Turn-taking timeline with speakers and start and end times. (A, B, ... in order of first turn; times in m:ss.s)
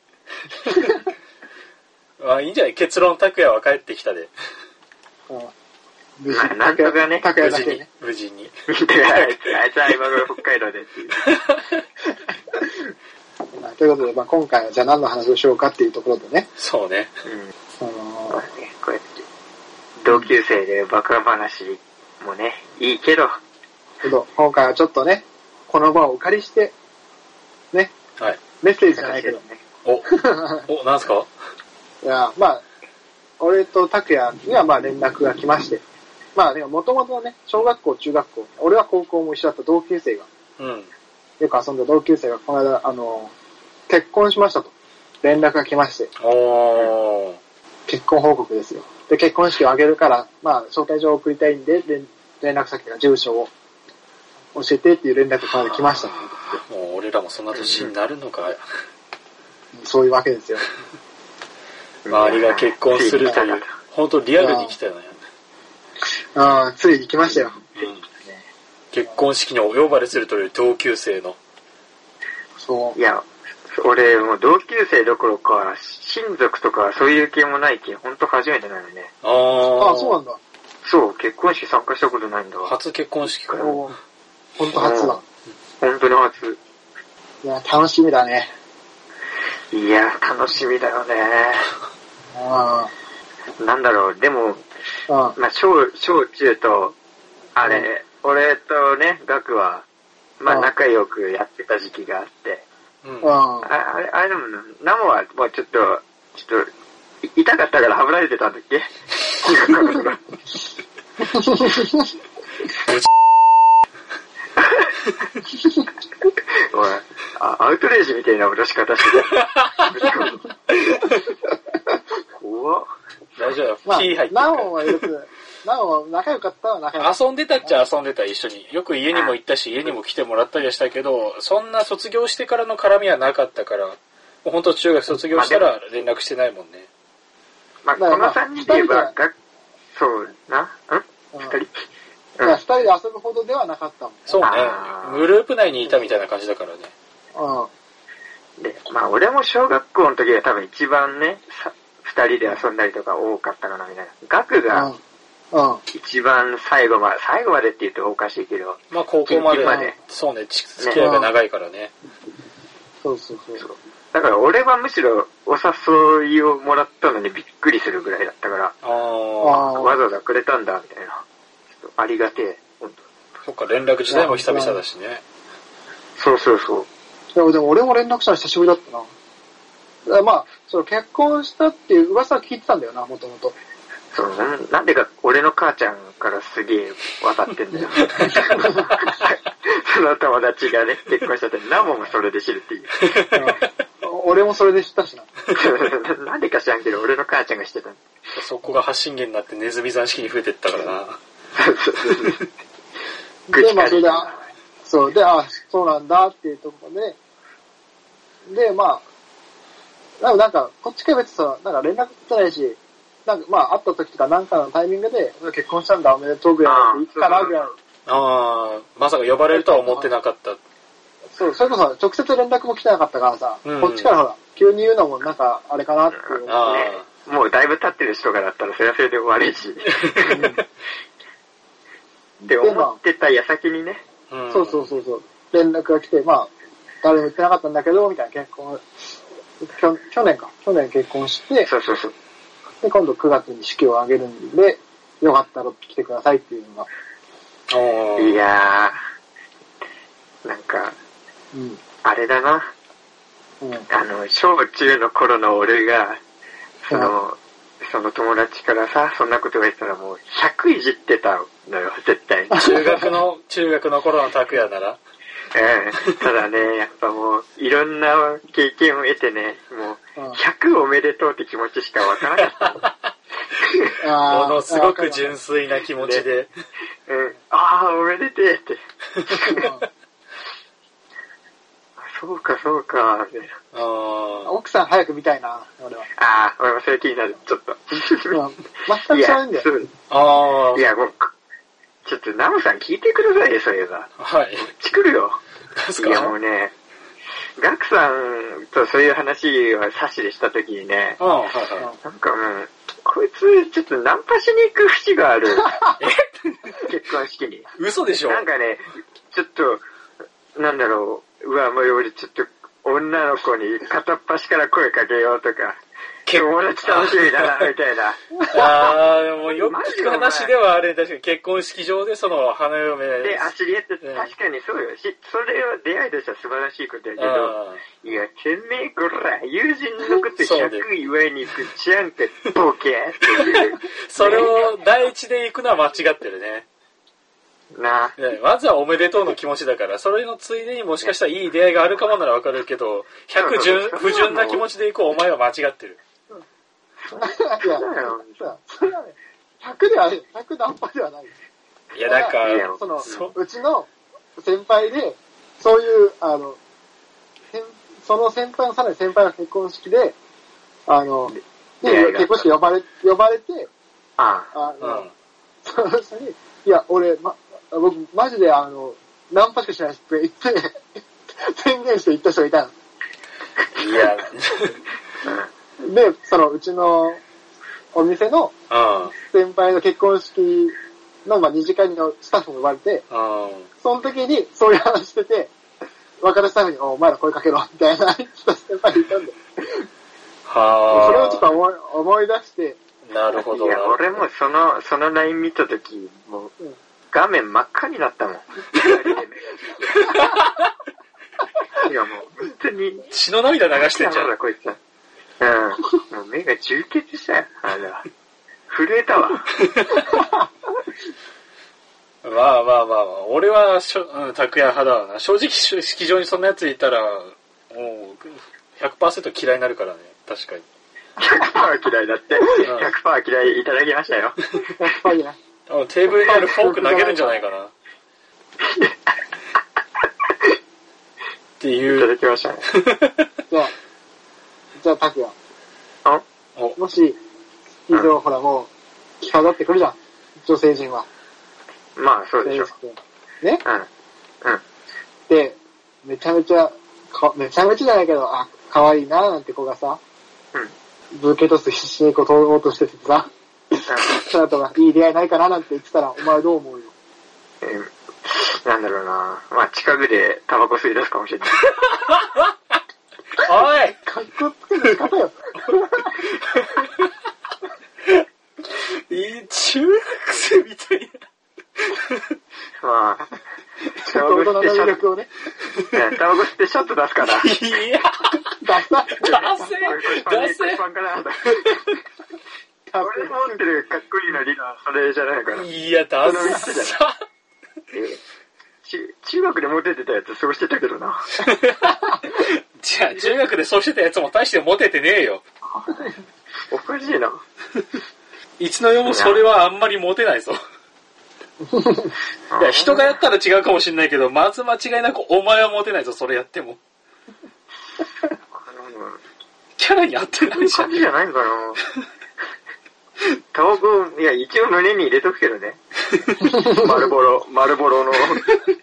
0:00.6-0:00.9 A
0:02.2-0:04.3 A
0:05.3-0:05.5 B
0:06.2-0:07.8 B
0:06.3-0:07.3 C
0:07.2-0:08.5 A
0:08.7-0:11.2 C
0:09.1-0:09.5 A
0:11.2-0:11.8 A
0:13.5-0:16.5 B
0:16.6-0:17.1 A
0:17.2-0:17.5 C
0:17.8-0:18.4 B
0:18.3-0:19.1 C
0:20.0-0:23.4 C
0:24.0-0:26.7 B
0:28.6-0:29.4 B
0:28.9-0:29.6 C
0:29.8-0:31.3 A
0:30.1-0:30.6 B
0:32.0-0:32.6 B
0:33.4-0:35.8 B
0:36.3-0:40.3 B
0:40.6-0:40.9 A
0:41.4-0:43.3 B
0:43.9-0:46.1 B
0:46.2-0:47.4 A
0:47.8-0:53.5 B
0:54.5-0:56.6 B
0:55.5-0:58.6 A
0:57.5-0:57.9 C
0:59.7-1:00.6 B
1:02.0-1:03.7 C
1:02.1-1:05.2 A
1:04.4-1:04.7 B
1:06.3-1:07.6 B
1:07.2-1:08.4 C
1:07.8-1:08.0 A
1:08.9-1:11.4 A
1:12.6-1:13.0 B
1:13.0-1:19.1 C
1:19.2-1:20.2 A
1:19.8-1:20.4 B
1:20.8-1:22.7 C
1:22.6-1:23.8 A
1:23.5-1:23.8 C
1:23.6-1:23.9 B
1:24.6-1:25.2 B
1:24.7-1:25.2 C
1:25.8-1:26.6 C
1:27.4-1:28.5 B
1:29.7-1:31.7 C
1:32.3-1:32.9 B
1:33.6-1:34.6 C
1:35.1-1:35.4 B
1:35.4-1:37.0 C
1:37.5-1:39.8 C
1:40.4-1:42.6 C
1:40.5-1:40.7 B
1:43.0-1:43.3 A
1:43.2-1:43.7 B
1:43.6-1:46.7 C
1:47.2-1:50.2 C
1:51.3-1:52.1 B
1:54.6-1:54.9 C
1:56.7-2:00.4 C
1:59.3-2:00.0 A
2:00.8-2:01.2 A
2:02.4-2:02.9 C
2:03.4-2:05.0 A
2:03.8-2:07.8 B
2:07.0-2:16.9 A
2:09.1-2:09.9 C
2:15.3-2:15.7 C
2:17.8-2:19.3 C
2:18.0-2:19.1 B
2:19.9-2:21.7 C
2:21.3-2:21.6 B
2:22.4-2:24.4 B
2:24.3-2:26.9 A
2:24.4-2:25.3 C
2:27.3-2:27.7 B
2:28.6-2:34.9 C
2:34.7-2:35.0 B
2:35.5-2:35.8 B
2:35.9-2:40.0 C
2:38.9-2:41.9 A
2:39.6-2:39.9 B
2:40.8-2:41.0 C
2:41.0-2:41.3 B
2:43.0-2:43.6 B
2:43.6-2:48.8 C
2:48.8-2:49.7 A
2:49.4-2:50.0 B
2:49.5-2:51.2 C
2:51.7-2:53.0 C
2:53.4-2:55.2 A
2:54.1-2:54.8 B
2:56.2-2:56.9 C
2:57.3-2:59.1 B
3:00.0-3:03.6 B
3:04.1-3:13.1 C
3:08.2-3:08.5 A
3:08.4-3:08.9 B
3:13.0-3:13.6 A
3:13.3-3:15.3 B
3:15.5-3:18.0 C
3:18.3-3:21.2 A
3:21.5-3:22.4 C
3:23.5-3:27.2 B
3:23.5-3:24.4 C
3:28.5-3:29.0 B
3:30.2-3:37.8 B
3:36.6-3:37.6 C
3:38.1-3:40.6 A
3:39.5-3:40.1 B
3:41.3-3:46.6 B
3:43.6-3:44.1 A
3:46.1-3:50.4 C
3:46.4-3:47.0 A
3:50.0-3:50.6 A
3:50.3-3:50.6 B
3:52.4-3:54.0 C
3:52.6-3:53.0 B
3:54.3-3:55.0 A
3:54.5-3:58.8 B
3:59.6-4:01.7 B
4:01.6-4:02.1 C
4:02.8-4:06.9 B
4:07.7-4:08.4 A
4:08.2-4:09.0 C
4:10.4-4:10.9 C
4:11.5-4:11.8 B
4:12.0-4:12.7 C
4:13.6-4:13.9 B
4:13.9-4:16.2 C
4:16.8-4:22.6 C
4:22.5-4:23.1 B
4:22.5-4:25.0 A
4:25.5-4:32.8 C
4:33.6-4:33.9 C
4:34.0-4:35.3 B
4:34.3-4:36.5 A
4:36.0-4:36.3 C
4:37.1-4:39.7 C
4:39.5-4:39.8 B
4:42.0-4:43.5 C
4:43.7-4:44.5 A
4:44.4-4:46.1 B
4:46.2-4:48.4 C
4:48.3-4:49.7 B
4:48.9-4:50.0 C
4:50.1-4:50.9 A
4:50.7-4:51.3 C
4:52.0-4:55.4 C
4:54.2-4:54.7 A
4:55.8-4:56.3 A
4:56.0-4:56.7 C
4:57.6-5:01.2 C
5:01.2-5:01.9 A
5:02.0-5:05.8 C
5:06.0-5:06.8 A
5:06.8-5:07.7 C
5:07.8-5:08.4 A
5:08.2-5:09.8 C
5:10.6-5:15.8 C
5:16.2-5:17.7 A
5:16.3-5:18.9 C
5:18.5-5:23.5 A
5:19.6-5:20.5 C
5:23.2-5:34.7 C
5:24.0-5:24.3 A
5:27.2-5:28.0 A
5:30.4-5:30.9 A
5:33.3-5:36.6 A
5:37.7-5:38.2 C
5:38.2-5:46.0 A
5:43.3-5:44.6 C
5:47.0-5:48.5 C
5:47.1-5:51.4 B
5:51.9-5:53.3 A
5:52.0-5:56.6 B
5:52.4-5:53.3 C
5:57.5-6:00.2 B
6:00.9-6:03.7 B
6:01.3-6:02.5 C
6:04.2-6:04.5 C
6:04.5-6:05.1 B
6:04.8-6:05.1 A
6:05.6-6:10.8 B
6:11.4-6:12.7 B
6:13.7-6:14.8 A
6:15.8-6:17.2 B
6:17.9-6:18.5 B
6:18.7-6:19.1 A
6:19.2-6:23.0 B
6:23.1-6:23.7 A
6:23.8-6:25.5 B
6:26.2-6:29.4 B
6:30.4-6:31.5 A
6:30.9-6:32.8 B
6:33.0-6:34.1 A
6:33.3-6:36.5 C
6:37.1-6:40.2 C
6:40.1-6:40.4 A
6:41.8-6:43.1 C
6:43.1-6:44.3 A
6:43.7-6:44.8 C
6:45.4-6:48.0 C
6:48.7-6:49.5 C
6:49.6-6:50.1 A
6:52.2-7:00.6 A
7:01.2-7:04.4 C
7:02.6-7:02.9 A
7:04.8-7:05.4 B
7:05.7-7:07.7 A
7:06.2-7:07.4 B
7:08.6-7:08.9 C
7:11.6-7:12.1 A
7:11.8-7:12.6 C
7:12.7-7:13.3 A
7:14.8-7:15.3 B
7:16.8-7:17.2 B
7:17.9-7:18.7 B
7:19.2-7:21.1 B
7:22.0-7:22.7 C
7:22.4-7:23.6 B
7:25.3-7:30.0 B
7:31.1-7:36.9 B
7:33.9-7:34.3 C
7:37.6-7:41.6 C
7:41.6-7:42.5 A
7:43.4-7:44.0 A
7:44.0-7:46.2 B
7:46.2-7:47.1 A
7:48.8-7:51.1 A
7:51.8-7:52.3 A
7:52.8-7:53.4 C
7:54.0-7:55.3 B
7:54.1-7:55.0 C
7:55.9-7:57.5 C
7:57.2-7:58.6 A
7:58.6-7:59.4 B
7:59.2-8:00.8 A
7:59.2-8:01.8 C
8:01.6-8:02.0 A
8:02.9-8:03.9 B
8:03.0-8:05.7 C
8:05.5-8:07.1 A
8:06.2-8:07.0 C
8:07.9-8:08.2 C
8:08.8-8:11.3 C
8:11.4-8:15.4 A
8:15.7-8:16.2 C
8:16.7-8:17.4 C
8:18.6-8:20.6 A
8:19.0-8:19.4 C
8:21.7-8:22.1 B
8:22.5-8:23.1 C
8:22.6-8:26.8 A
8:28.2-8:29.2 C
8:29.8-8:31.0 A
8:30.5-8:31.8 C
8:33.5-8:35.8 C
8:36.2-8:36.5 A
8:36.5-8:36.8 B
8:36.7-8:38.4 C